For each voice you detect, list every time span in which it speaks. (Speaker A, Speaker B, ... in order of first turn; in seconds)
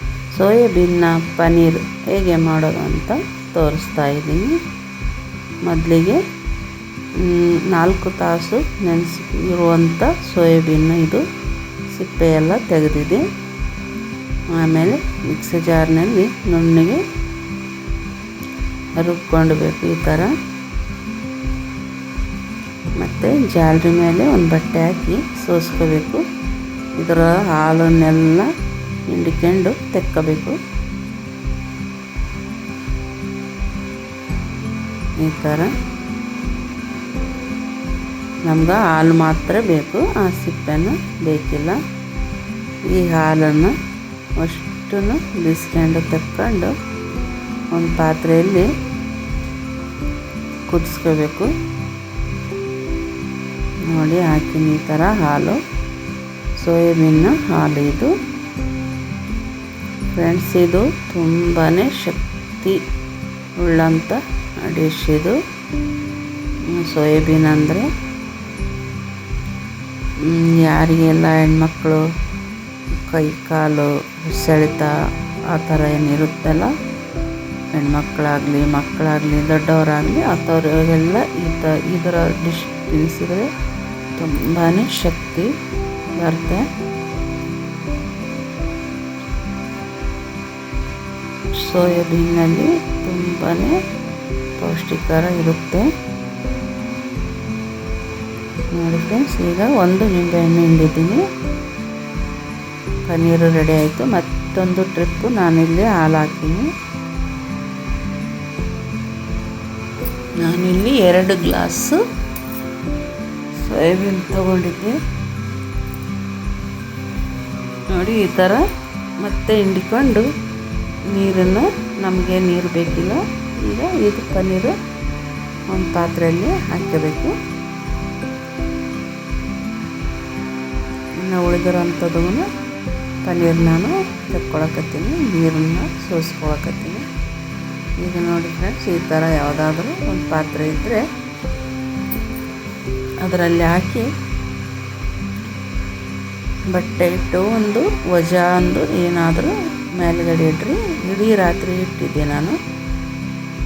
Speaker A: 0.3-4.6, 5.6-6.2, 7.2-11.2, 11.9-13.2, 14.5-17.0, 19.0-20.3, 23.0-26.2, 27.0-28.5, 29.1-30.6, 35.2-35.7, 38.5-41.8, 42.9-43.7, 44.4-46.7, 47.7-48.7, 50.7-51.5, 53.9-55.6, 56.6-58.1, 60.1-62.8, 63.6-65.4, 66.7-67.9, 70.2-72.0, 73.0-76.7, 77.7-83.5, 84.1-85.5, 86.2-86.7, 91.5-93.8, 94.6-95.9, 98.7-101.2, 103.0-106.7, 110.4-112.0, 113.6-115.0, 117.9-118.7, 119.2-120.3, 121.1-124.8, 125.7-127.4, 131.2-132.5, 133.2-137.1, 138.0-141.1, 143.2-144.1, 146.7-152.6